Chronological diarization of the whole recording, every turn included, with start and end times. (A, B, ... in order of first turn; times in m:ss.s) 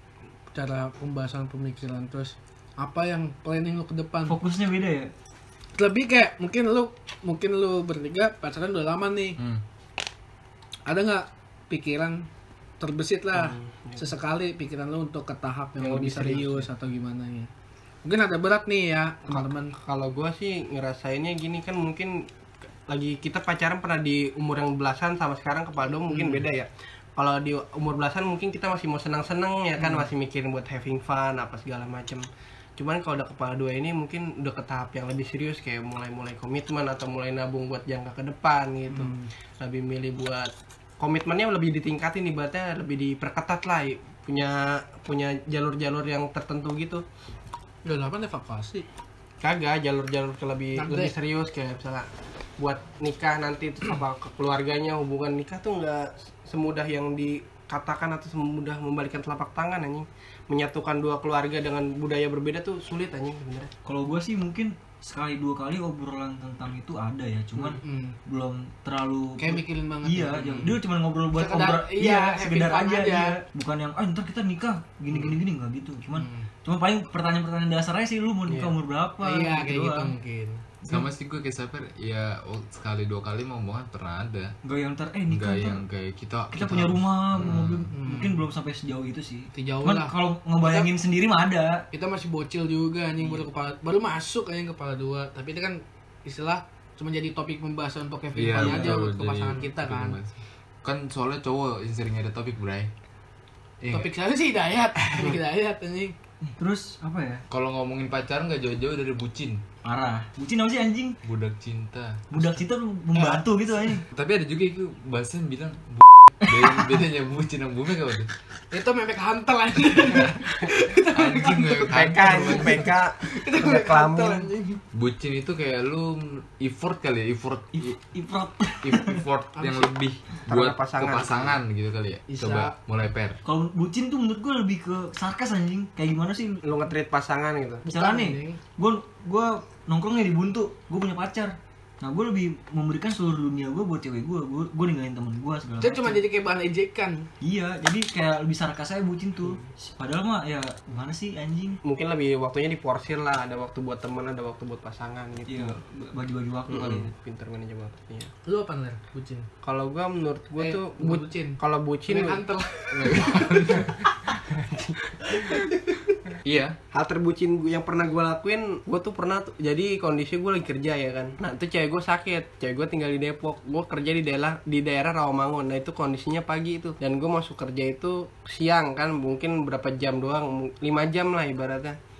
0:00.5-0:04.4 A
0:04.3-0:05.1 B
0:05.8-0:09.4 A
0:10.9-0:12.3 A
0:12.8-0:17.5 A
0:13.3-0:14.1 C
0:15.8-0:16.7 C
0:18.0-0:19.7 A
0:19.3-0:22.3 C
0:22.9-0:47.0 C
0:26.1-0:26.4 A
0:29.8-0:30.1 A
0:38.9-0:39.3 A
0:47.8-0:48.9 A
0:49.4-1:03.7 C
0:50.8-0:51.1 A
1:03.9-1:20.1 B
1:07.6-1:08.2 A
1:09.4-1:10.8 A
1:11.3-1:13.4 A
1:16.1-1:16.5 A
1:18.5-1:18.7 C
1:19.2-1:20.7 A
1:20.9-1:24.6 D
1:24.6-1:25.8 B
1:25.3-1:27.9 D
1:26.5-1:31.8 B
1:27.9-1:28.4 A
1:29.5-1:30.9 A
1:31.9-1:40.2 A
1:38.4-1:42.9 D
1:38.6-1:39.0 B
1:43.8-1:44.1 D
1:43.9-1:46.1 A
1:45.0-1:45.4 D
1:46.4-1:47.4 B
1:47.5-1:49.6 D
1:49.8-1:51.2 B
1:51.2-1:52.2 D
1:52.3-1:54.0 B
1:53.2-1:53.4 A
1:54.1-1:58.3 D
1:56.4-1:56.9 B
1:58.7-2:04.8 A
2:01.1-2:02.9 D
2:01.9-2:04.5 C
2:04.9-2:08.0 D
2:07.8-2:09.2 B
2:08.8-2:13.4 D
2:09.6-2:09.9 A
2:10.5-2:11.6 C
2:12.3-2:12.8 A
2:13.4-2:16.6 B
2:16.6-2:17.8 C
2:17.9-2:26.2 B
2:17.9-2:18.6 A
2:25.8-2:27.3 A
2:27.4-2:31.8 B
2:31.8-2:35.8 C
2:35.5-2:37.1 B
2:36.7-2:38.3 C
2:38.5-2:39.5 A
2:39.6-2:42.4 C
2:40.6-2:44.0 A
2:42.9-2:43.9 D
2:44.4-2:45.7 C
2:46.4-2:46.8 D
2:46.9-3:02.0 C